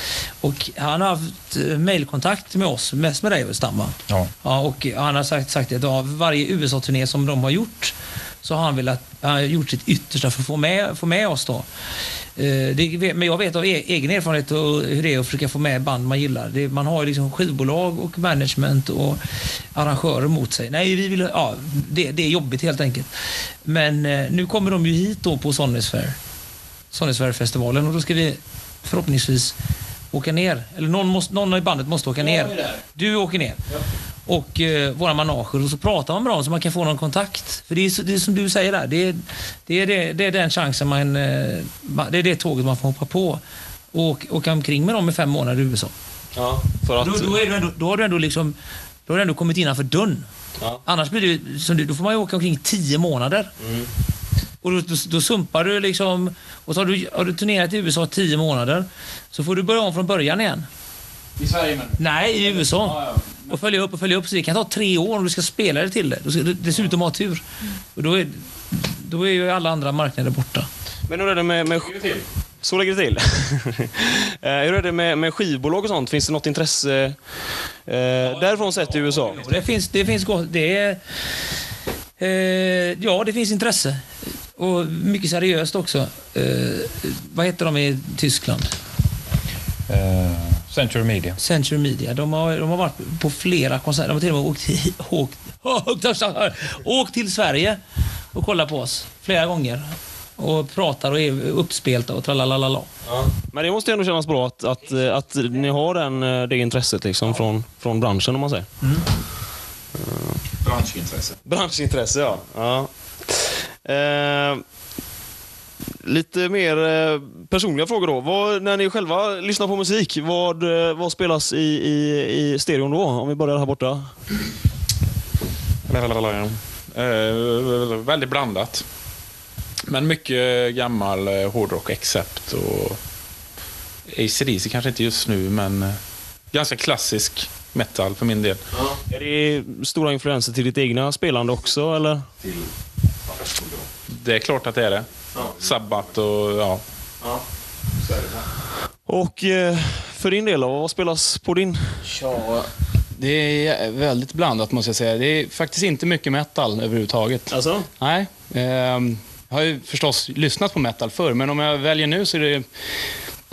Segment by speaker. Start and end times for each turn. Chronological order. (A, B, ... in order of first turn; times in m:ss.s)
0:00.4-0:11.6 A
0:12.4-0:19.2 A
0:19.7-0:23.1 A
0:23.6-0:26.1 A
0:26.9-0:29.5 A
0:30.1-0:33.6 A
0:32.2-0:32.8 B
0:34.3-0:43.4 A
0:43.9-0:45.9 A
0:46.4-0:47.4 C
0:47.0-0:48.5 A
0:49.0-0:50.2 A
0:50.8-0:53.5 A
0:53.6-0:53.9 C
0:54.6-1:00.6 A
1:01.4-1:02.0 B
1:02.0-1:07.4 A
1:02.5-1:03.5 B
1:07.9-1:10.7 A
1:11.1-1:17.2 C
1:17.9-1:19.4 C
1:18.2-1:21.0 A
1:22.2-1:24.0 A
1:24.6-1:28.7 A
1:29.9-1:31.3 D
1:31.4-1:37.8 A
1:38.3-1:39.8 A
1:40.4-1:42.9 A
1:43.0-1:48.7 C
1:48.8-1:49.1 A
1:50.0-1:50.4 C
1:50.6-1:51.3 D
1:51.4-1:52.9 C
1:53.8-1:54.6 C
1:56.0-2:04.0 C
2:05.9-2:08.8 E
2:09.8-2:13.0 E
2:14.1-2:16.0 E
2:16.5-2:18.6 E
2:18.7-2:22.2 C
2:24.1-2:25.1 E
2:25.6-2:26.8 E
2:29.1-2:32.6 C
2:33.2-2:42.6 B
2:37.5-2:37.9 C